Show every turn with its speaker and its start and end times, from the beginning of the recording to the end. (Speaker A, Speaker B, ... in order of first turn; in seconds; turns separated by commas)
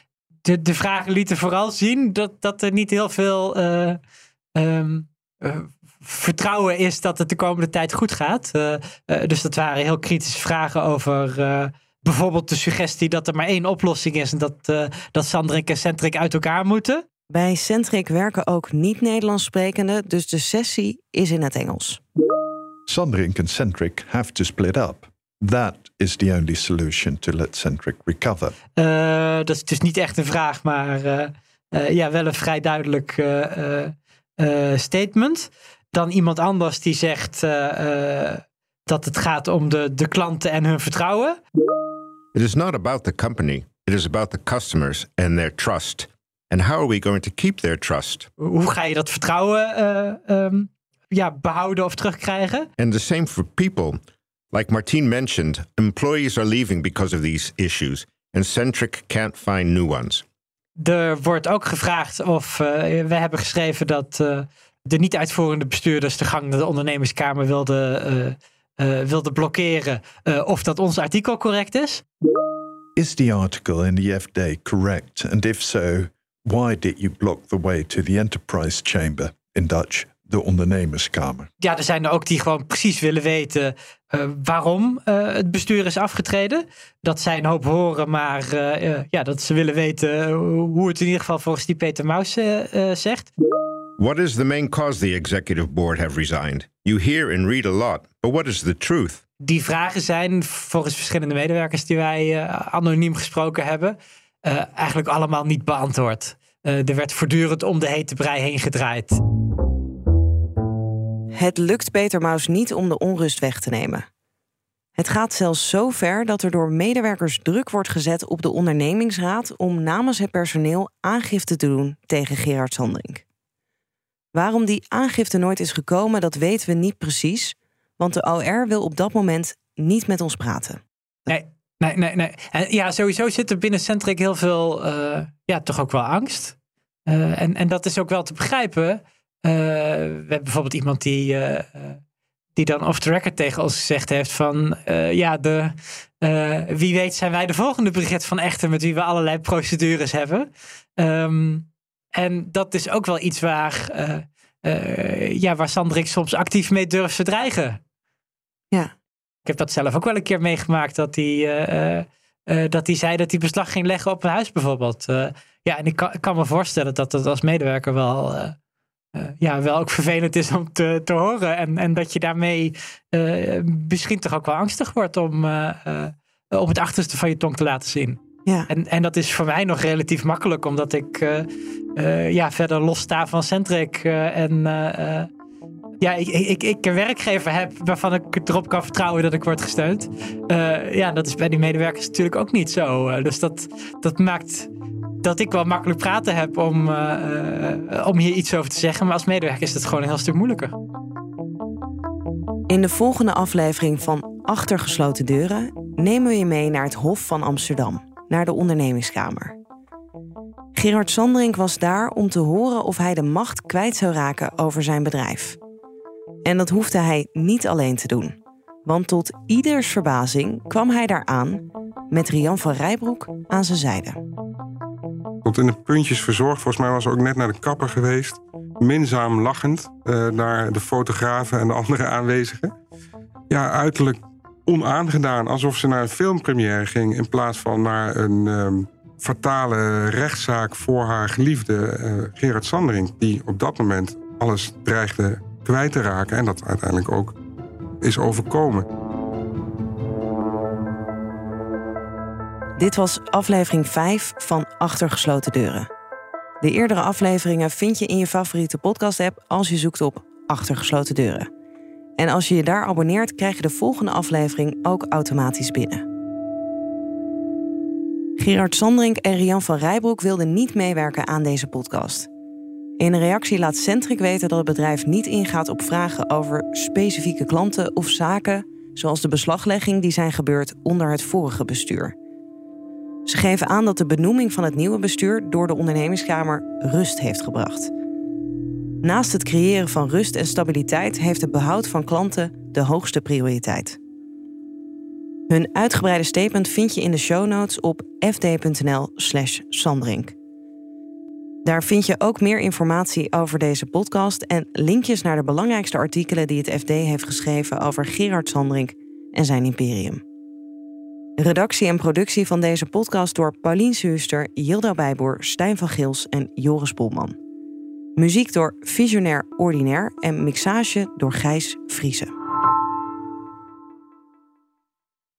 Speaker A: 0.4-4.0, Speaker A: 4.5-17.0, Speaker B: 17.3-22.0, Speaker C: 22.9-28.5, Speaker A: 28.8-41.4, Speaker D: 42.3-48.3, Speaker A: 48.4-52.7, Speaker D: 52.8-54.0, Speaker D: 54.5-60.2, Speaker A: 60.8-72.0, Speaker C: 73.0-81.5, Speaker A: 81.6-93.3, Speaker D: 94.0-99.2, Speaker A: 99.4-109.2, Speaker B: 111.3-114.0, Speaker B: 115.0-123.2, Speaker B: 124.3-130.8, Speaker A: 131.3-136.6, Speaker A: 137.1-142.0, Speaker A: 142.6-157.8, Speaker A: 159.4-168.6, Speaker A: 169.1-185.3, Speaker A: 186.0-194.7, Speaker A: 195.2-200.7, Speaker B: 202.7-209.6, Speaker B: 210.7-215.6, Speaker B: 216.4-224.2, Speaker E: 225.4-232.7, Speaker E: 233.5-247.3, Speaker E: 248.0-248.8, Speaker B: 252.8-255.9, Speaker B: 256.6-261.5, Speaker B: 262.2-266.0, Speaker B: 268.4-272.3, Speaker B: 273.0-282.1, Speaker B: 283.2-287.9, Speaker B: 289.0-294.0, Speaker B: 295.5-300.3, Speaker B: 301.6-310.2, Speaker B: 311.4-317.4, Speaker B: 318.2-322.3